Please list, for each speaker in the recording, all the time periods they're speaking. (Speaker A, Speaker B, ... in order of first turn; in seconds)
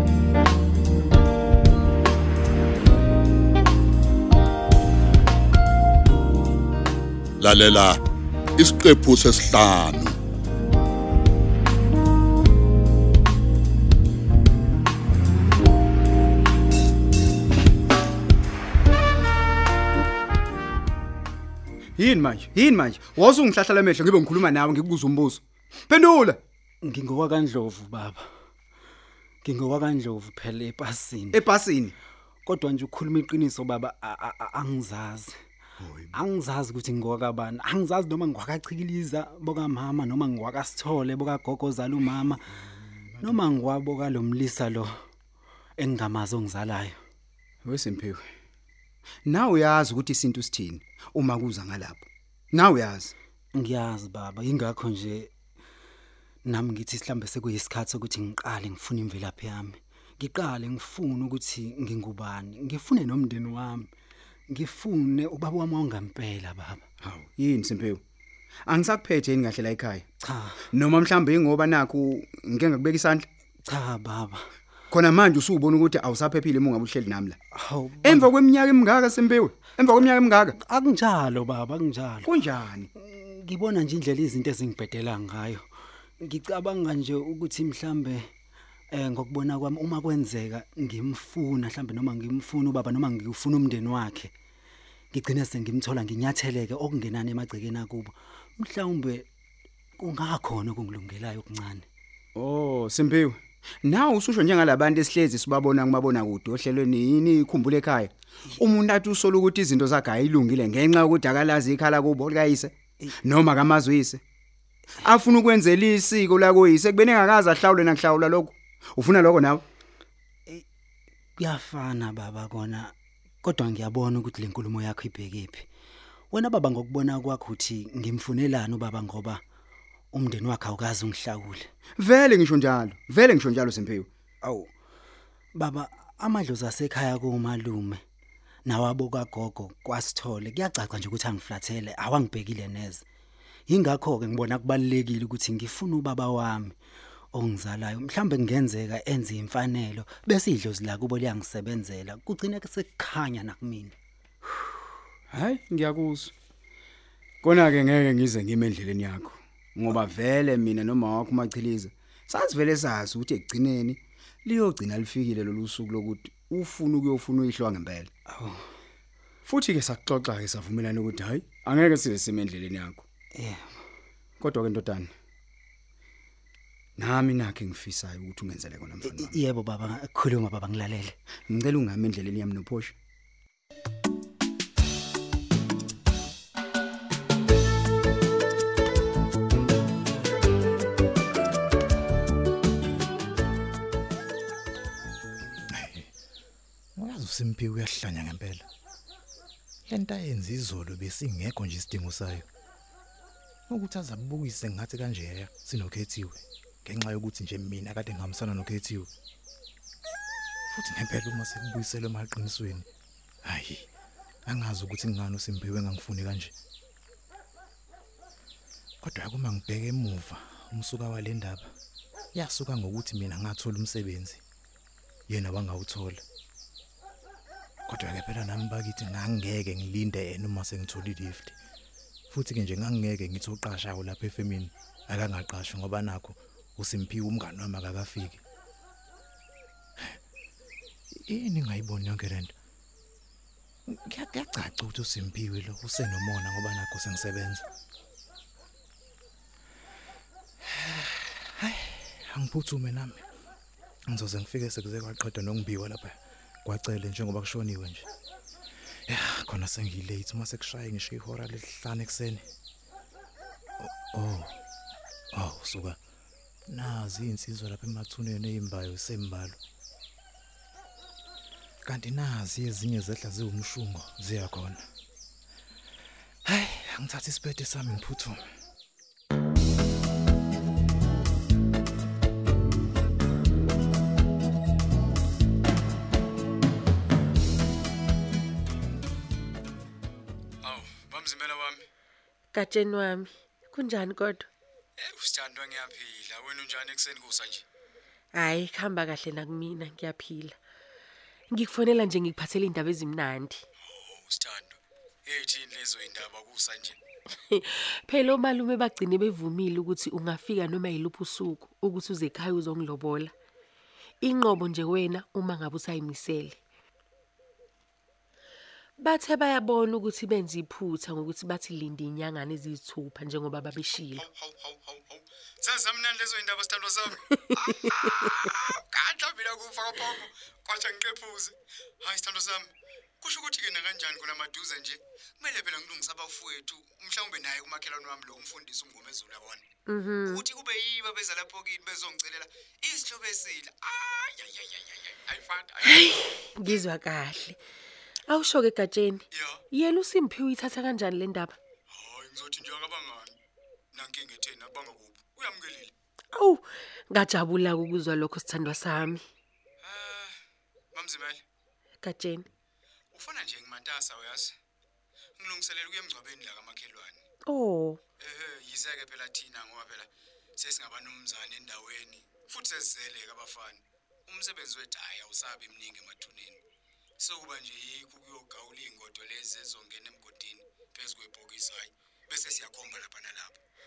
Speaker A: 7.4-8.0, 8.6-10.2
Speaker B: 22.0-26.4, 31.3-31.9, 35.8-36.1, 47.6-48.3, 49.3-53.1, 67.0-68.0, 68.7-70.0, 70.7-73.3, 74.9-77.4, 78.0-80.6, 82.2-82.9, 102.3-114.2, 115.0-119.6, 132.0-134.1, 155.3-156.3, 157.4-168.1, 169.5-173.0, 174.4-175.1, 177.0-179.4, 181.5-182.9, 290.6-291.9, 295.0-297.6, 303.8-307.0, 323.8-332.7, 333.2-339.6, 340.2-346.1, 349.3-349.6, 351.9-353.4, 353.9-355.9, 359.8-360.4, 360.9-361.4, 363.1-364.5, 365.4-367.2, 368.2-376.6, 377.2-383.6
Speaker C: 26.8-28.3, 29.4-31.4, 32.5-35.3, 36.1-42.5, 43.2-45.0, 45.8-47.0, 53.5-55.3, 56.5-63.9, 64.5-66.8, 70.2-70.6, 73.7-74.5, 77.5-78.3, 80.6-82.3, 83.0-85.7, 86.2-88.3, 88.9-94.3, 95.1-99.3, 100.0-101.9, 121.4-125.7, 126.3-129.4, 130.1-131.7, 134.4-134.7, 135.5-138.0, 138.7-143.1, 143.7-146.8, 147.3-153.9, 168.3-168.7, 173.3-173.8, 179.0-181.2
Speaker D: 195.7-196.1, 197.0-198.7, 199.9-202.5, 203.7-209.1, 210.7-212.9, 213.4-213.9, 214.5-216.5, 219.0-221.7, 222.3-224.4, 225.3-226.2, 227.9-231.6, 232.3-238.4, 241.3-242.5, 243.9-247.7, 250.6-253.2, 254.1-258.1, 259.1-262.4, 263.8-264.6, 265.3-266.0, 266.7-269.6, 271.9-274.8, 276.5-278.4
Speaker E: 292.5-294.5, 298.4-300.6, 301.5-303.6, 307.5-313.3, 314.2-316.6, 319.0-324.3, 339.9-340.4, 345.8-347.6, 348.3-351.6, 356.3-359.2, 362.0-362.5, 367.5-368.0